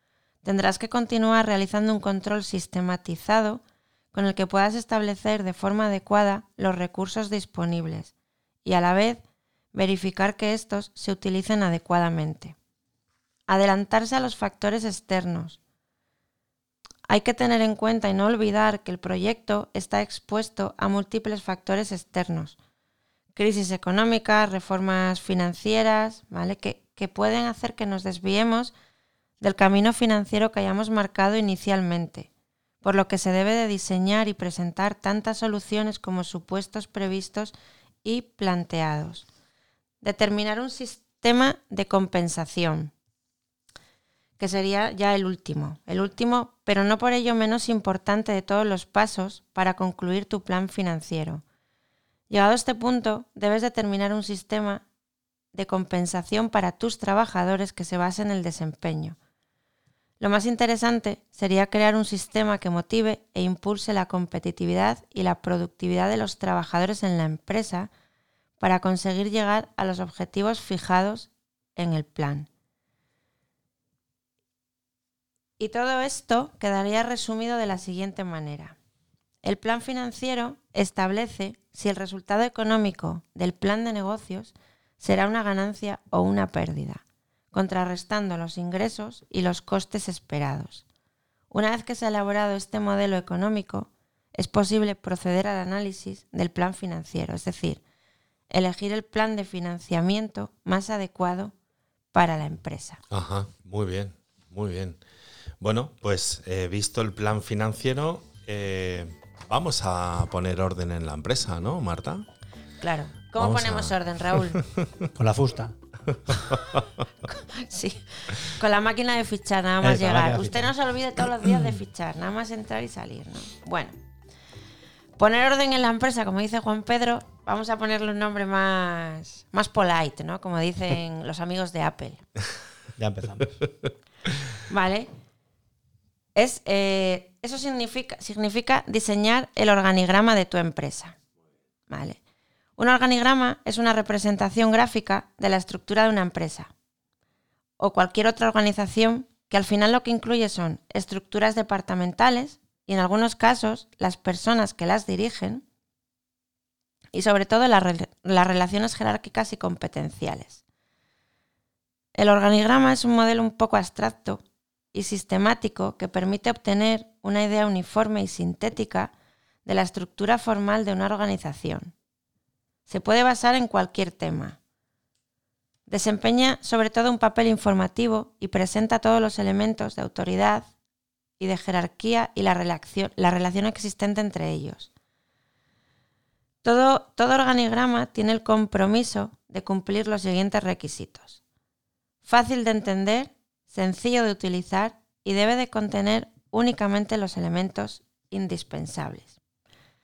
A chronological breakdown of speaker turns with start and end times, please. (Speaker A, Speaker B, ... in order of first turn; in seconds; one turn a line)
Speaker A: 0.4-3.6
Speaker A: 4.1-8.1
Speaker A: 8.6-9.2
Speaker A: 9.7-12.5
Speaker A: 13.5-15.6
Speaker A: 17.1-22.6
Speaker A: 23.3-28.7
Speaker A: 29.4-32.3
Speaker A: 32.8-39.2
Speaker A: 40.0-42.9
Speaker A: 44.4-51.4
Speaker A: 52.3-54.8
Speaker A: 55.5-59.1
Speaker A: 60.2-67.9
Speaker A: 68.6-72.5
Speaker A: 75.6-78.8
Speaker A: 79.4-87.0
Speaker A: 87.5-90.8
Speaker A: 91.5-97.8
Speaker A: 98.5-101.5
Speaker A: 102.1-103.0
Speaker B: 103.1-105.0
Speaker B: 105.6-112.2
Speaker A: 112.8-114.6
Speaker B: 113.4-115.1
Speaker C: 115.1-115.7
Speaker B: 116.1-116.8
Speaker A: 117.3-124.0
Speaker C: 119.8-120.7
Speaker A: 125.2-132.2
Speaker C: 133.0-133.6
Speaker A: 134.7-135.1
Speaker A: 136.3-141.2
Speaker A: 141.9-142.2
Speaker A: 142.8-146.7
Speaker A: 147.8-155.6
Speaker A: 157.1-160.6
Speaker A: 162.2-164.4
Speaker A: 164.9-169.1
Speaker A: 169.7-171.9
Speaker A: 172.9-174.6
Speaker A: 175.9-180.7
Speaker A: 181.4-184.9
Speaker A: 186.6-191.4
Speaker A: 192.2-199.3